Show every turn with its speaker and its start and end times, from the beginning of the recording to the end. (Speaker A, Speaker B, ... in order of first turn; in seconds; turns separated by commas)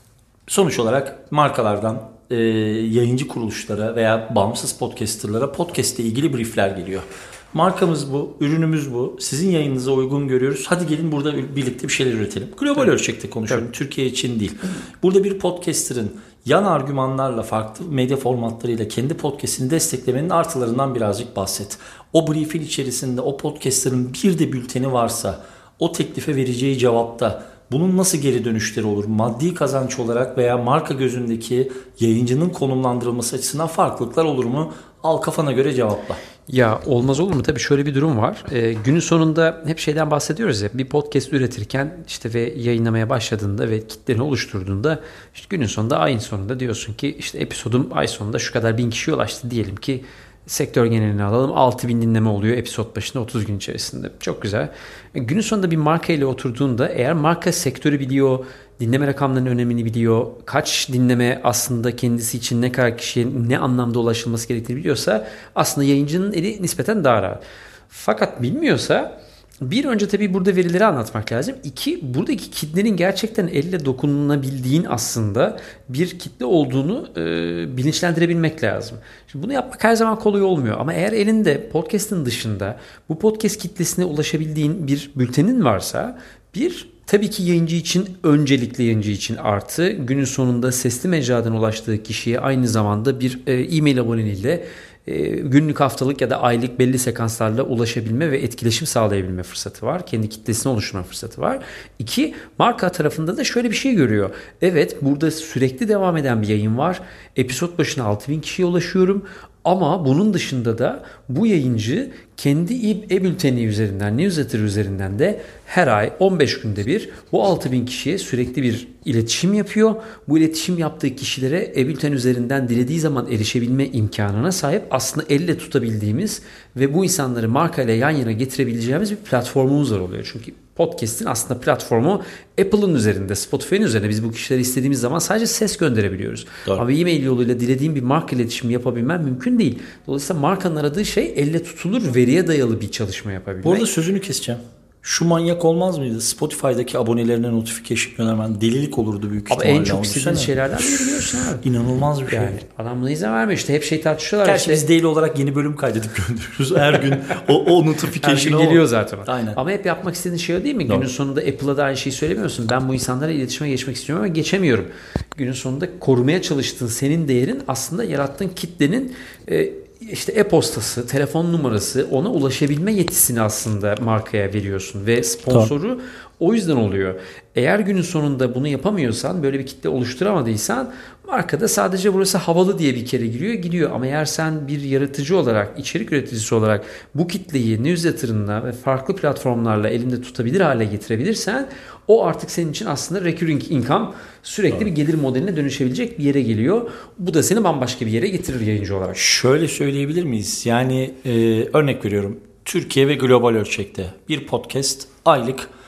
Speaker A: 0.5-36.2, Speaker B: 36.5-143.9, Speaker A: 143.6-150.6, Speaker B: 149.5-151.7, Speaker A: 151.6-152.6, Speaker B: 152.3-154.8, Speaker A: 154.4-159.6, Speaker B: 158.2-199.2, Speaker A: 199.2-205.7